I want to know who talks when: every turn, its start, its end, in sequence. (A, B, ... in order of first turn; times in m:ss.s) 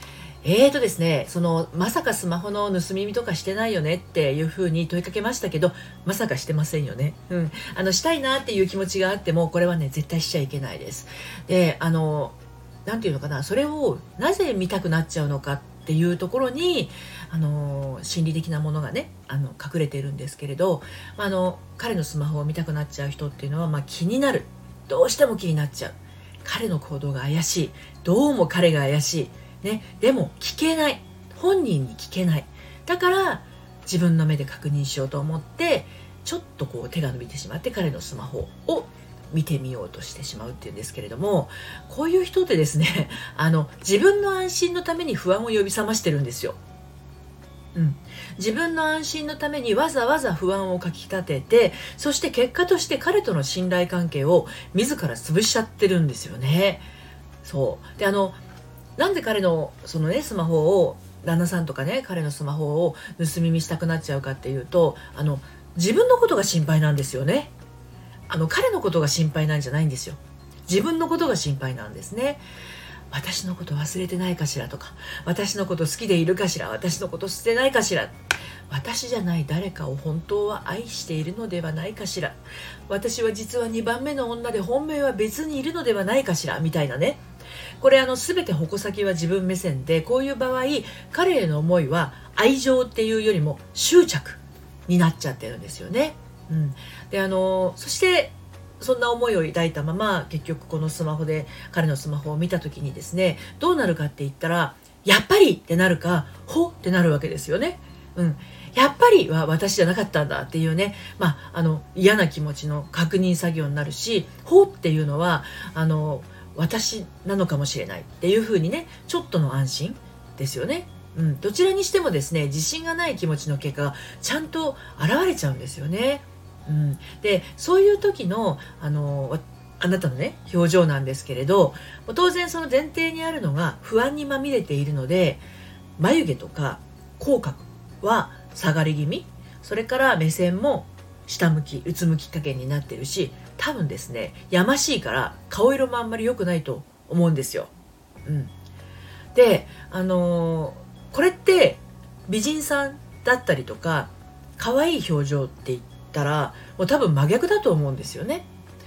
0:00.4-0:46.6 A
0:47.7-0:56.9 A
0:57.4-0:58.4 A
0:59.0-1:07.5 A
1:08.3-1:12.4 A
1:13.1-1:18.2 A
1:18.7-1:27.2 A
1:27.8-2:15.4 A
2:16.0-2:27.7 A
2:28.2-2:28.5 A
2:29.3-2:38.5 A